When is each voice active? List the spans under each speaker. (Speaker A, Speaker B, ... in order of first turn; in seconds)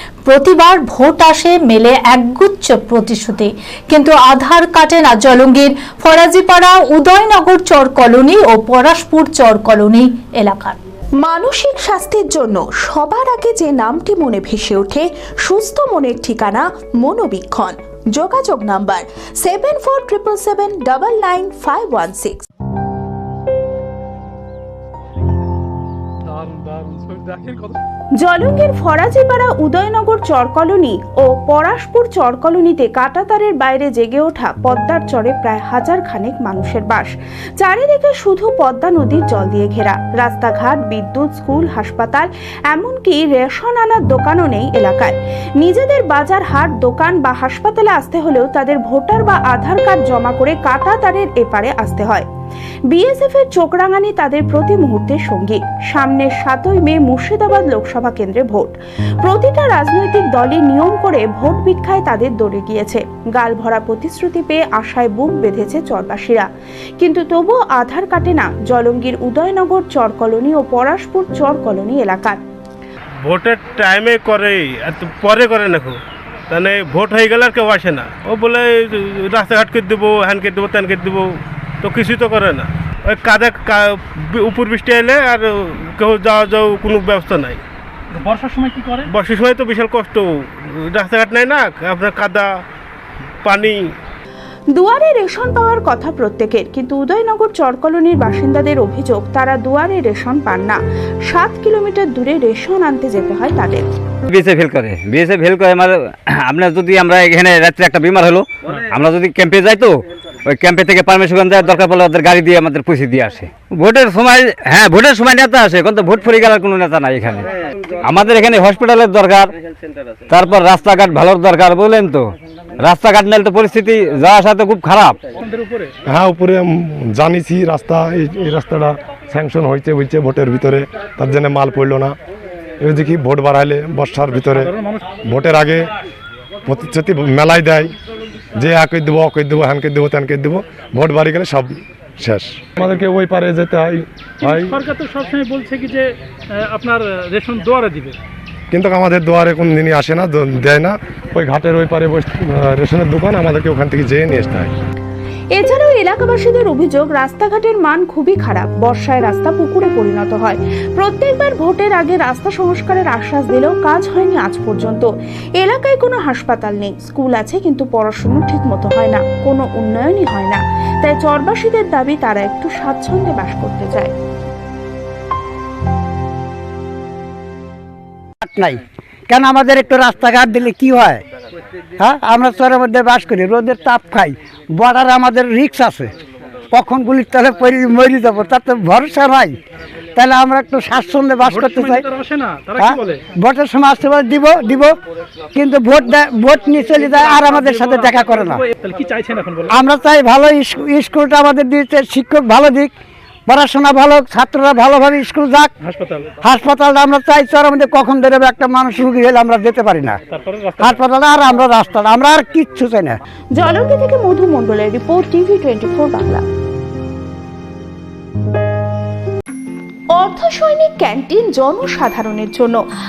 Speaker A: 0.3-10.8
Speaker B: 11.2-22.4, 28.2-52.3, 52.9-66.5, 67.0-72.4, 94.7-103.8, 155.5-174.1, 213.5-216.4, 220.1-222.8
Speaker C: 26.2-27.8, 88.2-89.1, 125.4-125.9, 134.4-135.0, 144.4-148.2, 191.4-193.2, 197.0-199.8, 205.7-206.3, 210.3-211.0
Speaker D: 73.2-76.0, 76.5-87.6, 89.1-92.6, 93.4-93.9
Speaker E: 104.3-117.5, 118.0-119.5, 120.3-125.2
Speaker F: 126.1-132.1, 132.8-134.7, 135.3-135.9, 136.7-137.9, 138.6-144.7, 148.7-154.7
Speaker G: 178.4-181.2, 182.0-186.1, 186.7-189.6, 190.2-192.1, 192.8-194.9, 195.5-198.6, 199.7-202.9, 203.5-205.7, 206.4-210.2, 210.8-213.2